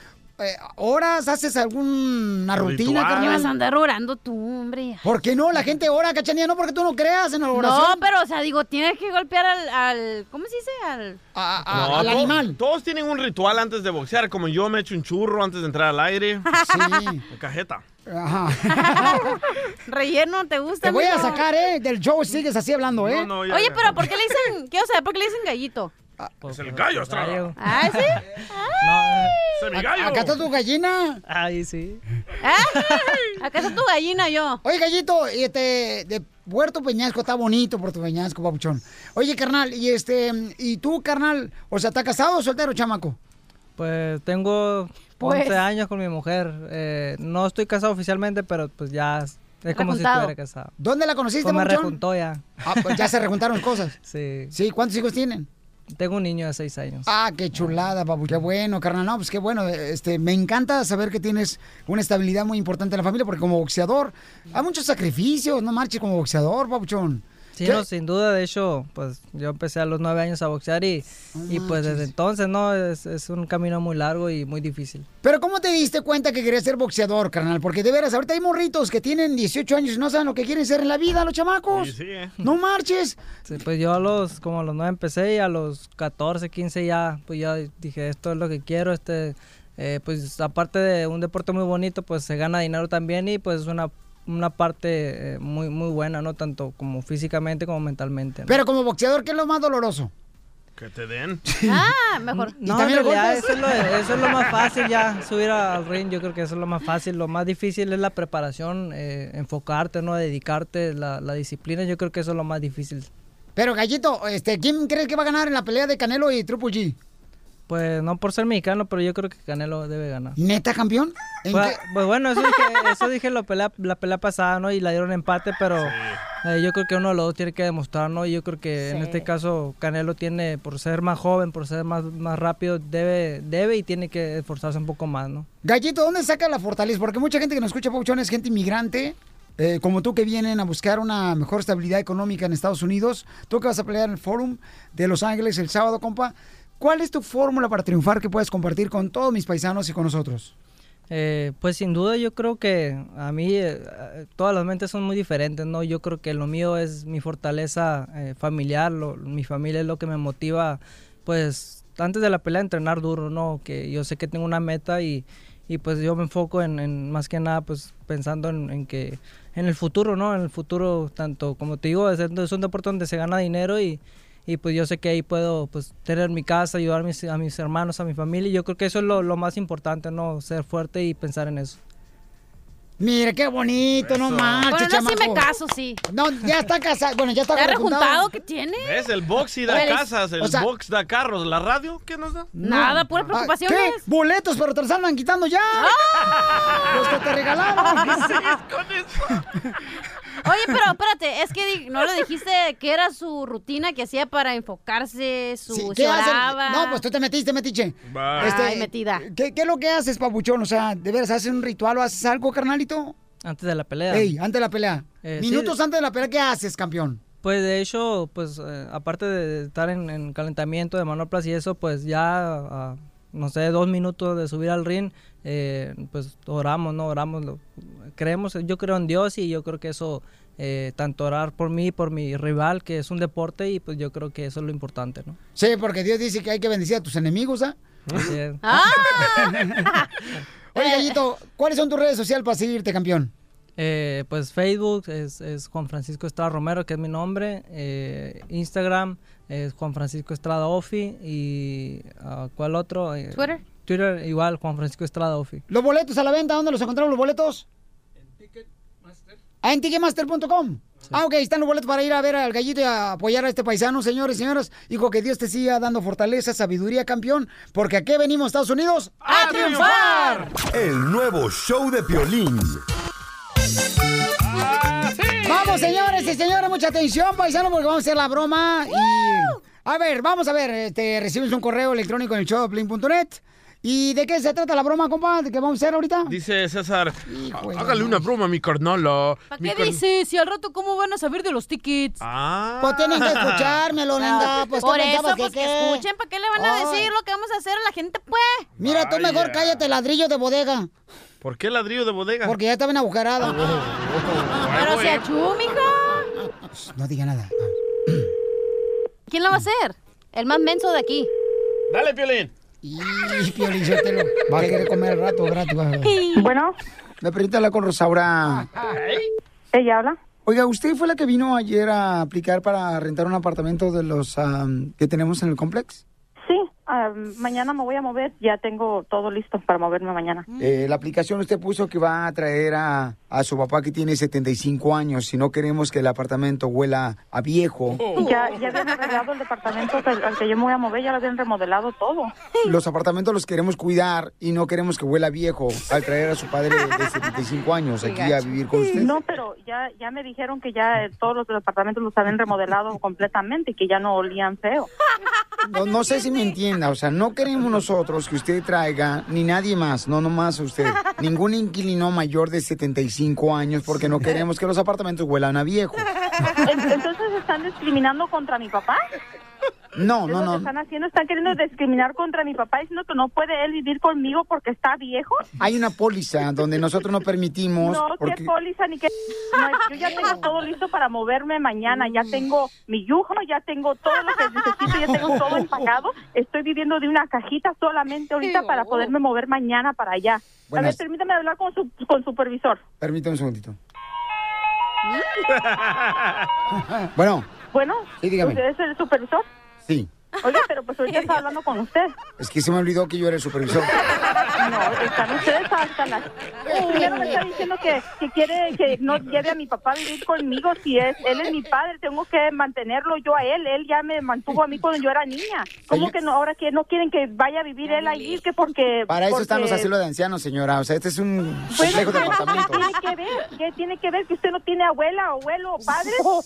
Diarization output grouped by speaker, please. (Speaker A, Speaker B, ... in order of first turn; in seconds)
Speaker A: 0.4-3.5, 5.0-8.1, 11.3-12.6, 16.6-17.2, 18.1-19.4, 20.8-23.3, 29.7-31.2, 34.6-43.2, 50.8-52.0, 52.6-54.0, 54.5-55.5, 57.1-67.8, 71.3-72.1, 75.2-83.2, 98.5-100.1, 101.5-101.9, 102.6-103.6, 113.6-117.0, 120.4-121.8, 135.6-150.5, 183.0-185.5, 186.1-188.3, 190.4-190.7, 192.6-195.9, 196.9-198.4, 205.7-213.2, 214.1-217.2, 235.6-237.8, 239.2-239.8, 240.7-243.3, 255.7-257.6, 259.6-270.5, 275.4-286.4, 287.3-288.2, 292.8-297.1, 298.8-300.9, 302.4-303.7, 306.7-308.3, 312.8-316.2, 317.2-318.7, 320.5-326.0, 330.6-338.1, 342.6-349.2, 355.6-366.1, 370.0-370.7, 375.6-378.5, 384.9-385.9, 390.7-391.0, 393.0-393.8, 397.0-397.5, 398.2-398.6, 402.4-404.1, 406.7-407.4, 419.1-422.9
Speaker B: 2.6-3.5, 11.7-16.5, 17.3-17.8, 23.0-24.1, 26.5-27.5, 29.6-30.4, 81.7-82.3, 100.8-101.4, 125.8-126.2, 184.0-184.7, 188.8-192.5, 198.0-199.4, 208.1-208.6, 269.2-270.5, 274.5-276.3, 286.3-290.0, 292.2-293.8, 298.8-299.8, 301.4-302.6, 303.4-305.3, 311.9-312.5, 314.5-314.8, 318.9-319.3, 338.0-338.2, 395.5-396.4
Speaker C: 3.1-5.0, 7.5-11.2, 16.5-16.9, 18.7-21.4, 23.5-25.9, 27.6-28.8, 32.4-34.6, 45.2-45.6, 49.7-50.3, 101.7-102.6, 128.8-129.3, 184.7-186.0, 187.5-189.1, 189.7-190.1, 192.6-194.0, 195.8-196.2, 200.4-207.0, 208.4-209.2, 238.6-240.1, 240.8-241.2, 253.3-253.7, 289.5-292.2, 294.2-298.7, 304.7-306.3, 309.3-311.3, 316.0-316.5, 338.2-339.1, 348.0-348.5, 355.9-356.4, 379.7-380.4, 388.4-389.1, 417.9-418.4, 421.9-422.7
Speaker D: 26.4-28.2, 28.8-29.4, 31.3-32.0, 32.8-33.3, 43.8-50.7, 51.4-53.0, 54.1-54.5, 55.9-57.1, 67.6-75.1, 83.5-98.6, 102.6-113.1, 117.7-120.4, 121.5-135.5, 151.1-181.8, 213.4-214.3, 215.2-215.7, 217.4-235.4, 238.2-238.6, 243.8-255.6
Speaker E: 270.7-272.8
Speaker F: 316.4-316.8, 319.7-320.2, 326.4-330.5, 338.2-342.3, 349.0-354.9, 366.6-369.1, 370.3-375.5, 377.8-392.8, 397.7-399.5, 400.4-402.1, 404.6-419.9, 421.7-426.3